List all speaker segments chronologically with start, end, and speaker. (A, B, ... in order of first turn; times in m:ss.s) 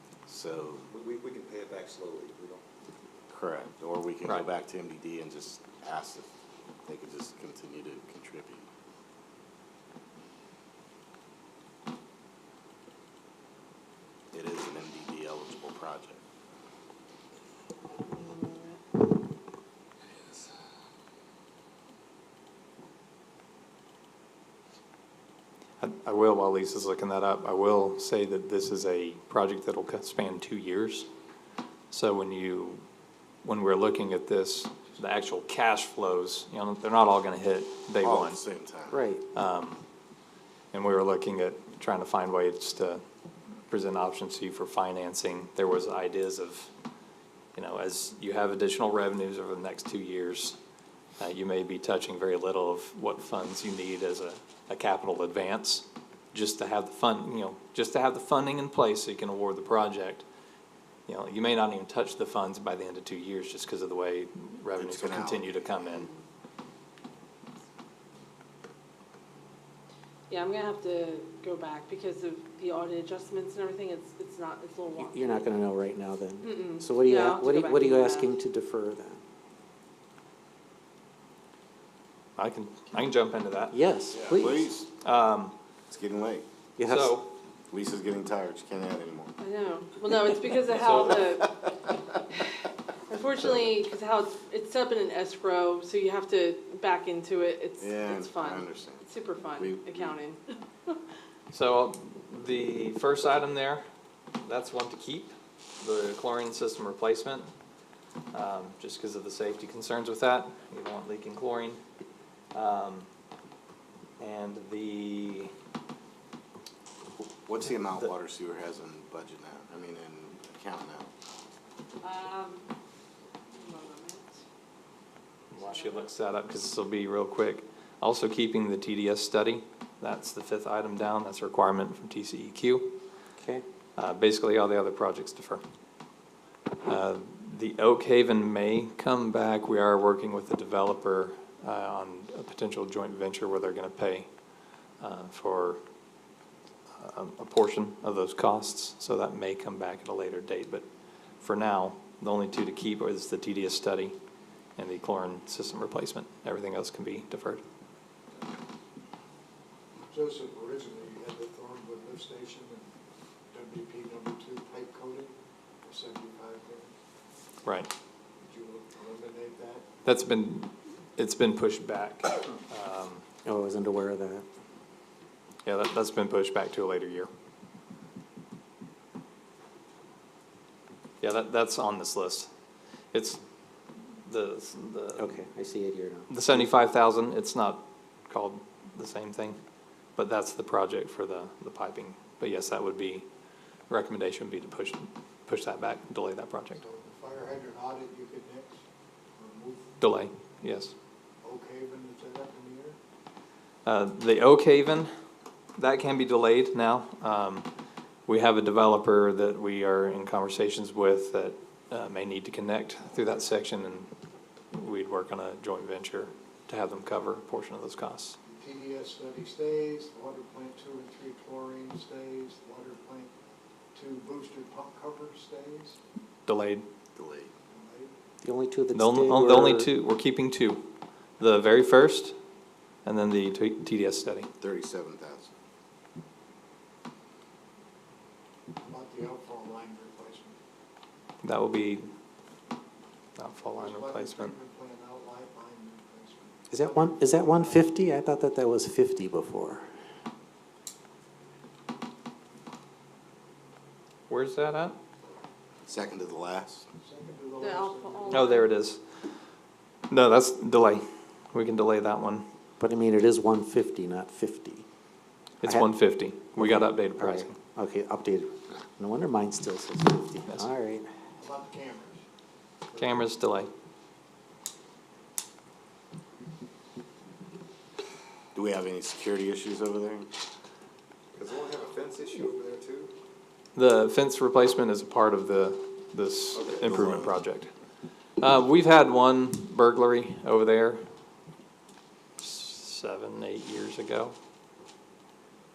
0:00.2-0:00.8 A
0:00.9-0:02.6 B
0:03.3-0:06.3 A
0:06.8-0:08.7 A
0:14.3-0:16.2 A
0:18.0-0:18.8 C
0:25.8-0:31.1 D
0:31.9-0:32.8 D
0:33.4-0:38.4 D
0:38.0-0:39.0 A
0:38.9-0:39.2 E
0:39.3-0:39.8 D
0:40.7-0:43.0 D
0:43.7-0:46.7 D
0:47.5-0:50.6 D
0:51.2-1:00.2 D
1:01.1-1:06.1 D
1:04.7-1:05.9 A
1:10.3-1:15.5 C
1:15.0-1:19.2 E
1:16.4-1:18.3 C
1:22.4-1:23.8 D
1:23.7-1:24.7 E
1:24.3-1:24.9 A
1:25.0-1:25.5 D
1:25.9-1:26.4 A
1:26.8-1:27.2 E
1:26.8-1:27.3 D
1:27.7-1:29.3 A
1:29.4-1:31.7 C
1:30.8-1:31.2 D
1:31.4-1:31.7 A
1:33.1-1:41.0 C
1:37.8-1:40.2 A
1:41.5-1:43.8 D
1:44.4-1:47.5 D
1:48.3-1:51.8 D
1:52.5-1:53.1 D
1:54.2-1:55.5 D
1:57.4-2:01.1 A
2:02.0-2:02.6 C
2:03.5-2:04.4 C
2:05.5-2:13.0 D
2:05.5-2:06.1 C
2:13.4-2:13.6 E
2:14.0-2:15.6 D
2:16.8-2:24.3 D
2:25.0-2:25.8 D
2:26.9-2:30.8 D
2:31.4-2:34.1 D
2:34.8-2:37.6 D
2:40.1-2:42.8 F
2:43.5-2:45.3 F
2:45.8-2:46.9 F
2:47.6-2:47.9 D
2:48.4-2:49.8 F
2:50.0-2:53.2 D
2:53.4-2:54.4 E
2:55.6-2:57.3 D
3:01.2-3:02.5 D
3:03.1-3:03.4 D
3:04.2-3:05.3 D
3:05.2-3:06.3 E
3:06.3-3:09.6 D
3:10.2-3:13.2 D
3:13.9-3:16.8 D
3:16.8-3:18.8 F
3:19.4-3:19.9 F
3:20.0-3:20.9 D
3:21.4-3:23.0 F
3:23.8-3:25.1 D
3:25.8-3:27.7 D
3:28.3-3:34.1 D
3:34.7-3:38.4 D
3:38.4-3:43.3 F
3:43.9-3:46.0 F
3:46.5-3:46.8 D
3:47.1-3:47.5 A
3:47.7-3:48.1 F
3:48.4-3:49.9 E
3:48.9-3:50.9 D
3:51.4-3:52.4 D
3:53.0-3:54.5 D
3:54.6-3:55.5 A
3:58.8-4:00.6 F
4:01.4-4:02.1 D
4:03.4-4:04.5 D
4:03.7-4:07.9 F
4:06.7-4:09.8 E
4:14.3-4:15.0 D
4:15.9-4:16.9 A
4:17.0-4:18.6 F
4:17.6-4:18.7 C
4:18.3-4:19.0 D
4:20.1-4:22.5 D
4:22.8-4:24.8 E
4:25.6-4:27.6 D
4:25.6-4:25.9 E
4:26.6-4:31.1 E
4:31.4-4:32.2 F
4:32.9-4:33.4 F
4:33.0-4:33.7 D
4:38.5-4:40.3 A
4:41.3-4:43.1 B
4:43.7-4:47.7 D
4:46.6-4:47.0 B
4:46.7-4:47.3 A
4:48.4-4:51.0 D
4:52.4-4:54.3 D